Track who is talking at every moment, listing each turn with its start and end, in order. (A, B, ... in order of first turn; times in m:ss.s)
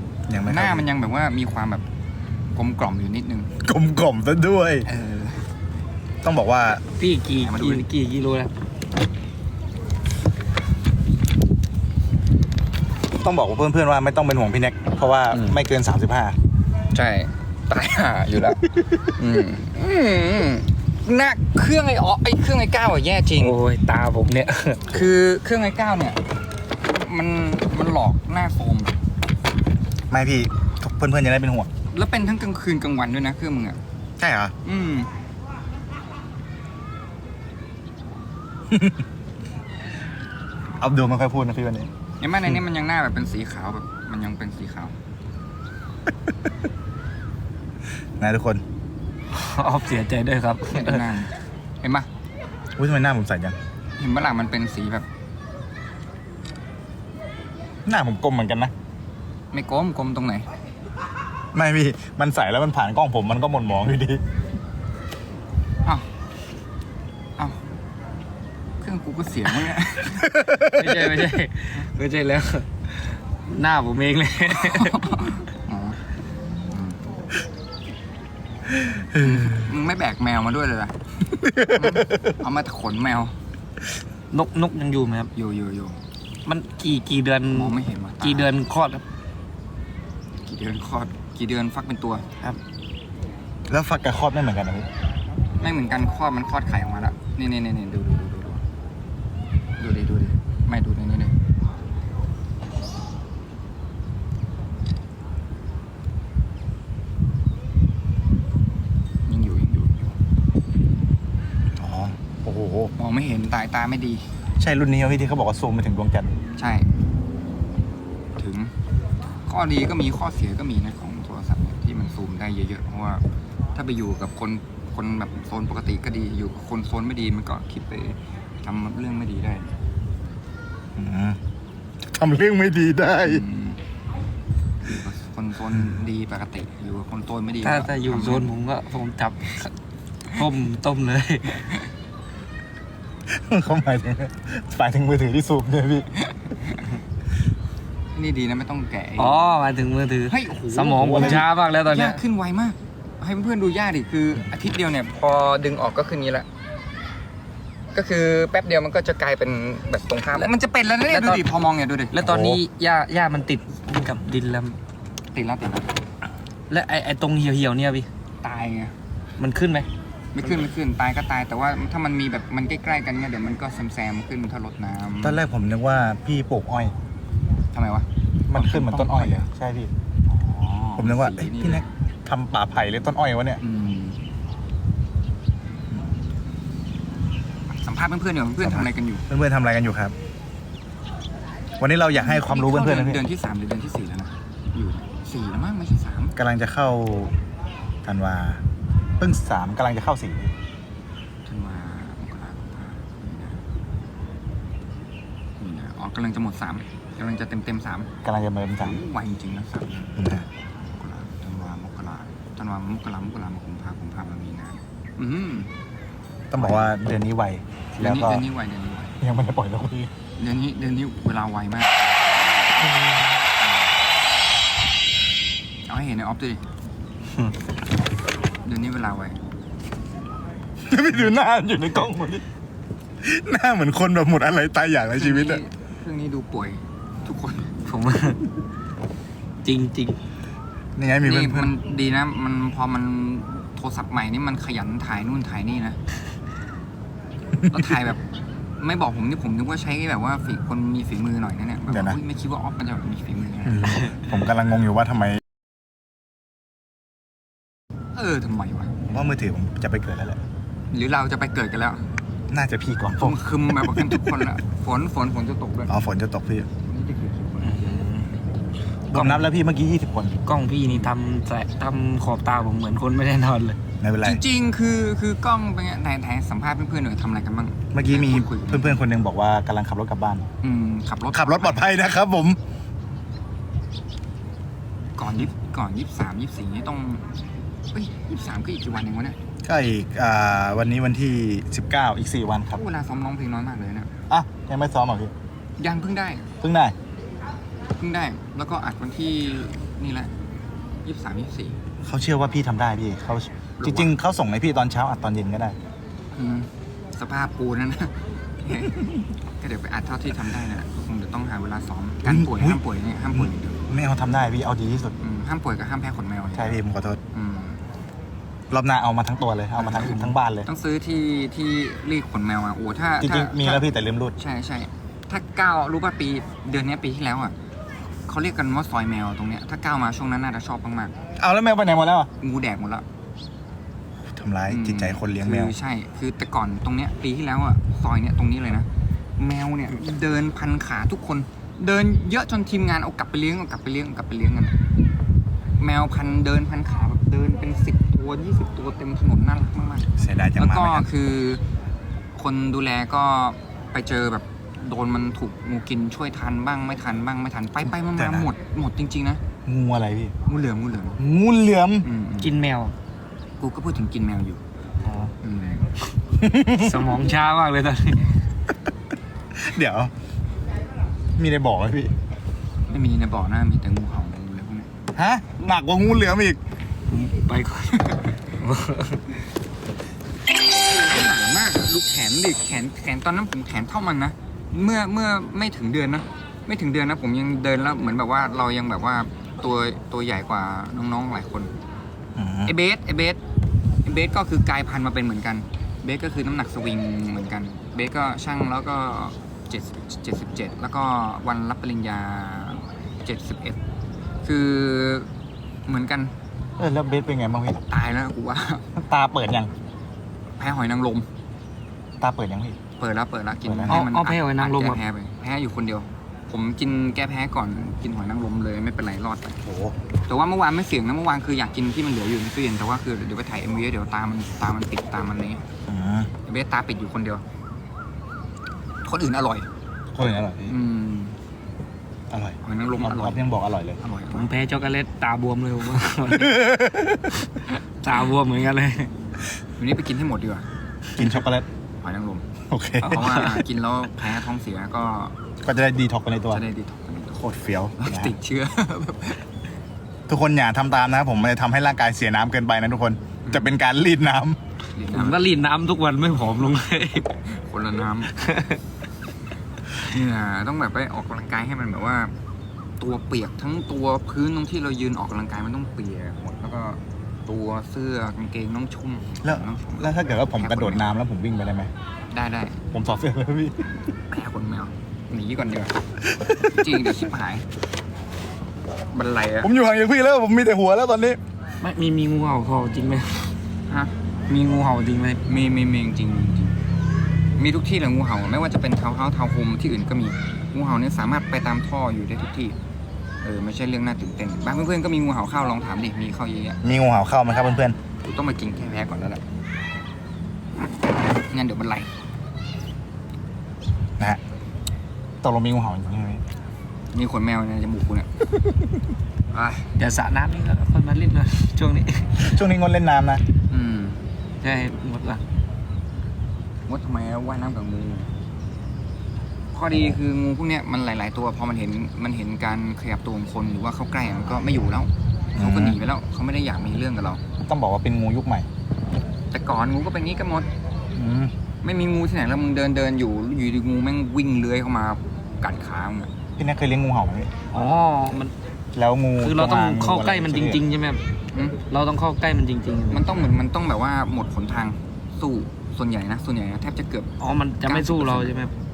0:00.3-0:00.9 A
0:00.5-0:01.8 B
0:02.6-0:03.5 B
0:03.6-0:04.9 A
0:04.9-0:05.4 B
0:06.2-0:06.8 A
0:07.0-0:08.5 C
0:07.4-0:07.9 B
0:13.2-0:16.4 A
0:15.3-0:15.6 B
0:16.9-0:23.6 B
0:23.4-0:24.9 C
0:24.9-0:26.2 B
0:26.8-0:29.0 B
0:30.1-0:31.7 A
0:31.9-0:33.8 B
0:34.2-0:34.5 A
0:34.6-0:35.1 B
0:38.7-0:39.0 A
0:40.8-0:41.9 A
0:42.2-0:45.0 B
0:48.2-0:48.6 A
0:49.3-0:51.0 C
0:50.7-0:52.1 B
0:52.8-0:53.6 A
0:54.0-0:55.1 B
0:57.9-0:58.7 A
0:59.5-1:00.5 B
1:01.5-1:04.2 A
1:08.8-1:10.4 B
1:10.2-1:11.1 A
1:10.6-1:15.0 C
1:14.5-1:16.0 B
1:16.7-1:17.0 B
1:18.8-1:19.7 A
1:19.1-1:20.9 B
1:21.3-1:22.3 A
1:21.6-1:23.4 B
1:24.3-1:25.3 C
1:25.4-1:26.0 B
1:26.5-1:29.0 C
1:27.5-1:28.5 B
1:30.4-1:32.2 B
1:33.7-1:34.9 A
1:35.6-1:38.6 B
1:39.8-1:41.4 B
1:49.3-1:50.2 B
1:51.8-1:52.9 A
1:53.0-1:54.3 B
1:54.6-1:56.3 A
1:56.6-1:56.9 B
1:58.4-1:58.7 B
1:59.5-2:03.2 B
2:03.7-2:09.8 B
2:11.0-2:11.4 A
2:12.1-2:13.4 A
2:13.2-2:13.8 B
2:14.8-2:18.6 B
2:17.6-2:19.7 C
2:20.3-2:21.7 C
2:23.3-2:26.1 A
2:26.3-2:26.8 B
2:28.2-2:29.6 B
2:29.2-2:32.2 C
2:30.3-2:36.5 B
2:31.0-2:31.5 A
2:37.9-2:42.2 B
2:41.1-2:41.4 C
2:42.2-2:44.8 C
2:42.2-2:42.6 A
2:45.3-2:45.9 B
2:46.7-2:48.1 C
2:48.4-2:49.0 B
2:49.4-2:49.9 C
2:50.3-2:55.4 B
2:55.2-2:57.0 A
2:57.7-2:59.5 B
2:58.5-2:59.9 A
3:00.3-3:01.8 B
3:01.0-3:03.6 A
3:03.6-3:04.2 B
3:05.9-3:06.2 A
3:07.7-3:09.2 B
3:08.6-3:10.1 A
3:11.8-3:13.2 A
3:12.1-3:16.4 B
3:16.4-3:17.4 A
3:18.0-3:18.6 A
3:19.2-3:20.5 A
3:21.5-3:23.6 B
3:25.6-3:28.1 B
3:28.2-3:29.0 A
3:28.8-3:30.2 B
3:30.2-3:30.5 A
3:31.0-3:35.7 B
3:36.5-3:38.5 A
3:36.6-3:36.9 B
3:38.0-3:39.2 B
3:39.2-3:40.1 A
3:40.4-3:42.8 B
3:43.6-3:43.9 B
3:45.9-3:46.6 B
3:48.6-3:49.4 B
3:50.8-3:52.4 A
3:53.2-3:55.6 A
3:55.1-3:57.8 B
3:57.9-3:58.4 C
3:59.6-4:00.2 C
4:01.0-4:01.7 A
4:01.2-4:06.0 B
4:07.7-4:08.2 B
4:08.8-4:14.0 B
4:11.9-4:12.2 A
4:13.7-4:15.4 A
4:18.2-4:19.0 B
4:19.1-4:20.4 A
4:20.9-4:22.1 B
4:22.5-4:24.4 A
4:23.2-4:25.9 B
4:25.9-4:26.7 A
4:26.9-4:28.1 B
4:27.6-4:28.3 C
4:29.1-4:30.4 A
4:29.1-4:29.5 C
4:30.5-4:33.8 C
4:30.9-4:31.1 B
4:34.0-4:34.4 A
4:34.2-4:39.0 B
4:37.9-4:40.4 A
4:40.6-4:41.8 B
4:41.3-4:42.6 A
4:45.2-4:47.3 B
4:47.9-4:49.4 B
4:49.6-4:52.8 A
4:52.7-4:54.1 B
4:54.3-4:55.3 A
4:55.8-4:56.5 B
4:56.6-4:57.0 A
4:58.0-5:00.3 B
5:01.0-5:01.8 B
5:02.0-5:05.8 A
5:03.8-5:04.1 B
5:06.3-5:13.8 B
5:12.2-5:12.8 A
5:13.3-5:15.1 A
5:15.2-5:16.8 B
5:16.5-5:17.2 A
5:17.3-5:17.8 B
5:18.7-5:20.7 A
5:19.8-5:27.6 B
5:23.2-5:24.3 A
5:28.3-5:31.2 B
5:31.4-5:32.3 A
5:32.4-5:33.0 B
5:34.3-5:35.7 A
5:34.7-5:44.8 B
5:45.8-5:51.6 B
5:50.2-5:51.1 A
5:52.4-5:59.4 B
5:58.2-5:58.5 A
5:59.7-6:00.4 A
6:00.5-6:01.2 B
6:01.2-6:02.1 A
6:02.0-6:02.6 B
6:02.4-6:02.9 C
6:03.6-6:04.6 B
6:05.0-6:05.3 C
6:05.4-6:05.9 B
6:06.4-6:07.1 A
6:06.8-6:08.2 C
6:09.6-6:10.1 A
6:11.4-6:12.1 A
6:12.9-6:14.9 B
6:15.2-6:16.6 A
6:17.1-6:19.2 C
6:20.6-6:31.7 B
6:32.4-6:32.7 A
6:32.6-6:33.4 B
6:34.0-6:43.8 B
6:44.4-6:45.3 B
6:45.9-6:46.3 B
6:46.8-6:47.8 A
6:47.9-6:48.9 B
6:49.0-6:49.7 A
6:50.6-6:51.3 B
6:52.2-6:52.8 A
6:53.0-6:59.6 B
6:53.6-6:54.1 A
6:53.9-6:55.0 C
6:59.6-7:00.0 A
7:00.3-7:05.6 B
7:05.9-7:06.3 A
7:06.5-7:07.4 B
7:09.0-7:09.7 B
7:10.2-7:10.7 A
7:10.7-7:11.4 B
7:12.3-7:14.0 A
7:12.6-7:13.4 B
7:14.0-7:14.5 B
7:14.3-7:16.7 C
7:16.3-7:17.4 A
7:17.4-7:19.1 C
7:19.8-7:20.7 B
7:21.2-7:21.7 A
7:22.0-7:22.5 B
7:22.7-7:23.6 A
7:23.0-7:23.6 C
7:23.0-7:25.4 B
7:25.6-7:26.6 A
7:26.5-7:27.4 B
7:27.4-7:28.3 A
7:28.0-7:29.4 B
7:30.3-7:34.6 A
7:33.4-7:33.7 B
7:35.0-7:35.5 B
7:35.1-7:37.3 C
7:37.3-7:38.3 B
7:38.3-7:38.8 C
7:40.0-7:42.3 B
7:43.0-7:51.1 B
7:49.4-7:51.9 A
7:52.3-7:52.8 B
7:52.9-7:53.8 A
7:54.3-7:57.7 B
7:56.3-7:57.0 A
7:59.1-7:59.7 B
7:59.6-8:01.4 A
8:01.8-8:03.6 C
8:03.9-8:04.2 B
8:04.5-8:05.4 C
8:05.5-8:06.9 B
8:07.6-8:12.8 B
8:13.4-8:16.8 B
8:16.8-8:18.0 A
8:18.2-8:19.4 B
8:21.4-8:22.1 B
8:25.4-8:26.4 A
8:27.1-8:28.5 B
8:29.5-8:29.9 B
8:30.0-8:32.5 C
8:32.4-8:33.4 A
8:33.7-8:34.2 B
8:34.6-8:35.4 C
8:36.9-8:38.3 B
8:39.7-8:47.4 B
8:39.9-8:40.2 A
8:45.6-8:46.0 A
8:47.6-8:48.7 A
8:49.5-8:50.7 B
8:51.2-8:51.5 A
8:51.8-8:56.3 B
8:56.6-8:57.5 A
8:57.7-8:58.5 C
8:59.0-9:00.8 A
8:59.4-9:01.2 C
9:01.5-9:01.8 B
9:01.9-9:03.4 C
9:03.1-9:07.3 B
9:07.4-9:08.7 C
9:07.8-9:08.5 B